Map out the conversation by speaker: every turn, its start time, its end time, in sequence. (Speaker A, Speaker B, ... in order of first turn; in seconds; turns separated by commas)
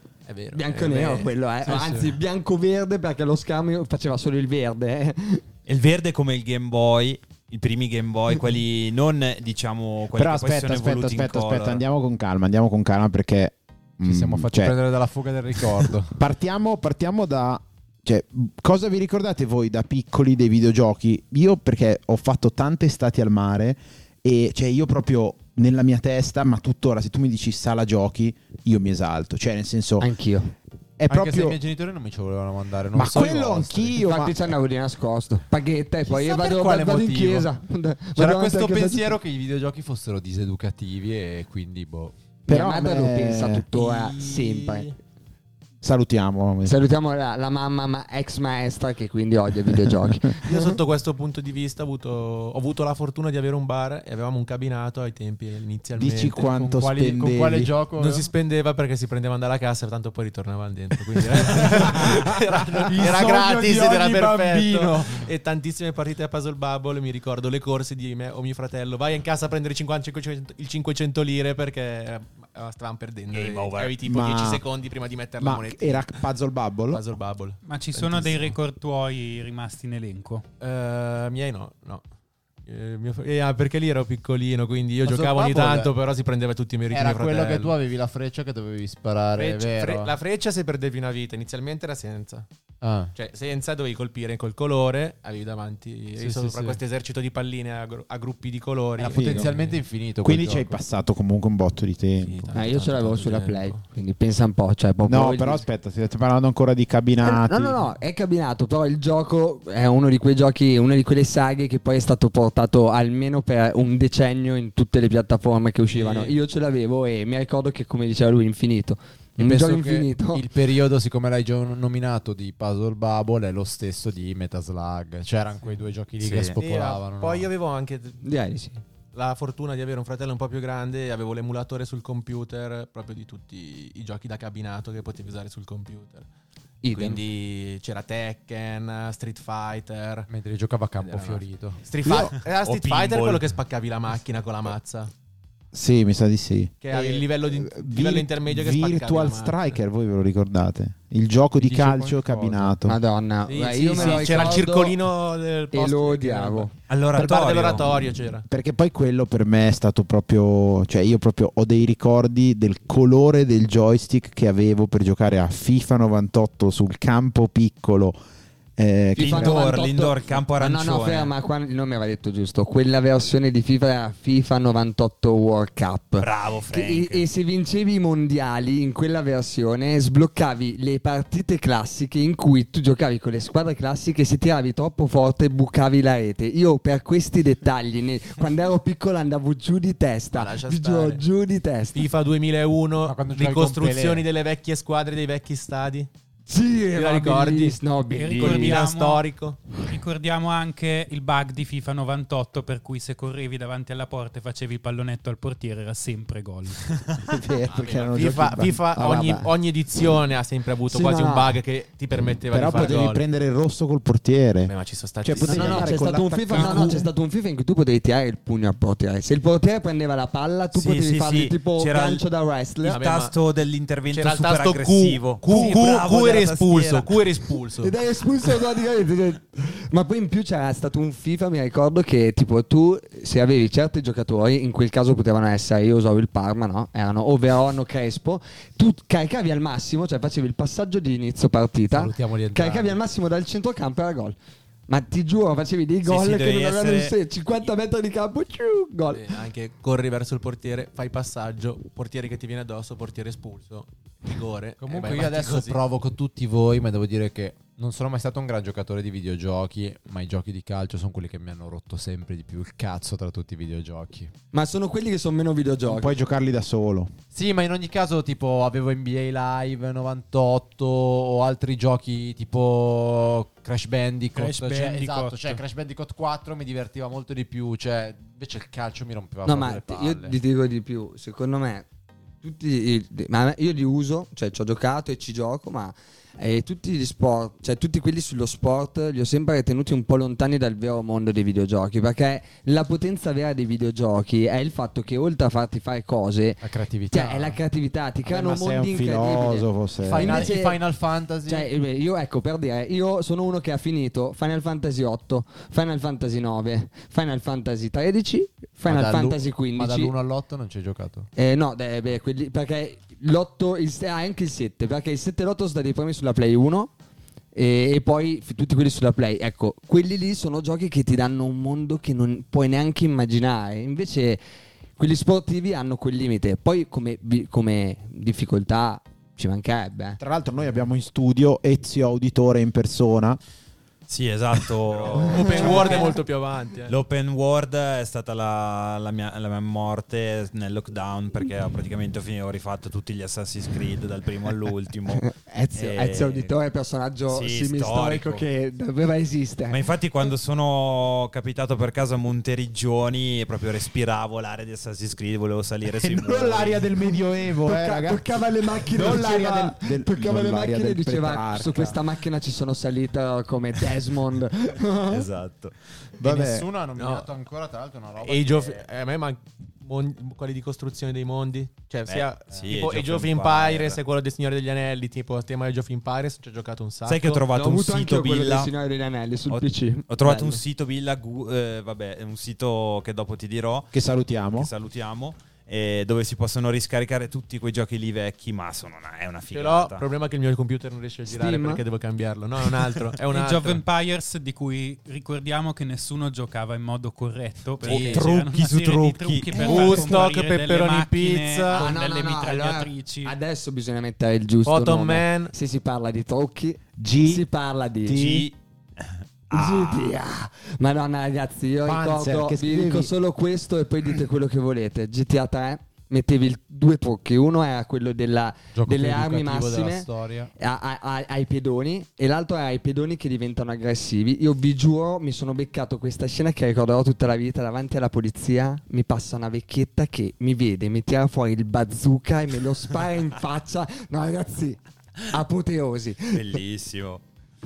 Speaker A: 0.3-1.3, Speaker B: 0.5-5.4, Speaker C: 1.6-2.2, Speaker D: 5.7-11.8, Speaker E: 10.1-14.8, Speaker C: 14.0-16.2, Speaker E: 15.6-30.1, Speaker B: 30.0-30.5, Speaker E: 31.0-31.6, Speaker C: 31.1-34.0, Speaker E: 32.9-34.5, Speaker B: 34.0-39.2, Speaker C: 36.1-37.5, Speaker C: 38.1-42.1, Speaker E: 42.5-43.7, Speaker B: 42.5-44.9, Speaker A: 43.7-44.9, Speaker E: 45.8-46.8, Speaker B: 46.6-50.7, Speaker A: 50.4-56.6, Speaker E: 56.0-57.7, Speaker C: 56.6-58.3, Speaker A: 58.0-76.2, Speaker C: 61.3-65.3, Speaker D: 73.3-74.0, Speaker E: 74.0-74.6, Speaker E: 75.4-77.0, Speaker A: 76.9-78.5, Speaker F: 77.6-80.5, Speaker A: 80.6-82.0, Speaker A: 82.6-87.8, Speaker C: 85.0-85.9, Speaker C: 86.9-90.1, Speaker A: 89.3-92.5, Speaker C: 92.8-93.1, Speaker A: 93.1-99.8, Speaker C: 96.2-96.8, Speaker C: 99.0-100.8, Speaker E: 99.0-99.5, Speaker E: 100.2-102.6, Speaker A: 102.2-103.8, Speaker B: 102.5-105.6, Speaker E: 105.0-107.8, Speaker B: 107.2-120.5, Speaker A: 115.9-116.4, Speaker C: 119.4-127.5, Speaker D: 126.2-126.6, Speaker A: 126.6-128.2, Speaker B: 128.2-128.8, Speaker A: 129.1-136.3, Speaker B: 136.8-137.2, Speaker A: 136.9-140.3, Speaker C: 140.3-141.8, Speaker A: 141.0-145.1, Speaker D: 142.1-143.4, Speaker E: 145.7-153.0, Speaker A: 146.8-149.8, Speaker C: 151.6-152.8, Speaker B: 152.8-155.0, Speaker A: 153.5-158.5, Speaker B: 155.7-156.8, Speaker D: 156.9-158.1, Speaker E: 158.5-168.2, Speaker E: 168.8-169.6, Speaker B: 169.2-192.1, Speaker D: 169.2-171.3, Speaker D: 176.2-177.3, Speaker A: 190.3-191.2, Speaker A: 191.9-196.1, Speaker C: 193.0-194.2, Speaker B: 196.5-198.8, Speaker A: 196.9-197.8, Speaker F: 198.1-199.3, Speaker A: 198.4-199.6, Speaker F: 199.8-206.9, Speaker E: 207.2-209.5, Speaker A: 207.7-213.2, Speaker B: 210.9-211.6, Speaker E: 212.5-217.1, Speaker A: 214.7-215.9, Speaker B: 215.5-223.0, Speaker D: 220.7-222.2, Speaker A: 222.8-223.4, Speaker D: 222.9-227.2, Speaker A: 224.1-228.0, Speaker B: 227.8-244.4, Speaker C: 241.9-243.0, Speaker B: 244.9-249.3, Speaker D: 246.0-247.2, Speaker A: 249.1-255.8, Speaker C: 254.8-264.3, Speaker B: 264.5-266.2, Speaker E: 265.9-267.1, Speaker C: 267.3-280.4, Speaker F: 274.3-275.6, Speaker B: 279.4-281.9, Speaker B: 282.4-300.9, Speaker C: 296.6-297.6, Speaker E: 298.3-300.5, Speaker C: 300.0-301.7, Speaker B: 301.4-310.1, Speaker C: 308.9-311.3, Speaker B: 311.4-316.9, Speaker B: 317.6-324.4, Speaker B: 325.0-330.2, Speaker E: 330.2-333.4, Speaker D: 334.1-336.1, Speaker B: 335.1-336.1, Speaker A: 335.1-337.0, Speaker D: 336.9-346.6, Speaker B: 345.1-349.8, Speaker D: 347.3-348.4, Speaker D: 349.7-356.9, Speaker E: 356.0-358.2, Speaker B: 357.6-365.3, Speaker E: 358.9-362.0, Speaker D: 365.1-365.8, Speaker E: 366.2-366.7, Speaker C: 366.2-368.9, Speaker A: 367.0-367.3, Speaker A: 368.2-377.4, Speaker D: 372.1-374.0, Speaker C: 372.5-372.9, Speaker D: 377.1-378.7, Speaker B: 377.5-380.6, Speaker D: 379.5-384.0, Speaker E: 383.9-384.7, Speaker D: 384.5-390.1, Speaker A: 389.5-393.8, Speaker B: 391.3-391.8, Speaker F: 393.3-403.4, Speaker C: 397.8-398.3, Speaker D: 397.8-400.1, Speaker A: 399.6-401.9, Speaker B: 401.7-408.2, Speaker A: 404.6-405.5, Speaker E: 407.0-407.5, Speaker E: 408.0-408.5, Speaker D: 408.1-410.2, Speaker B: 409.5-436.6, Speaker E: 411.8-413.1, Speaker C: 418.7-420.5, Speaker D: 436.3-437.2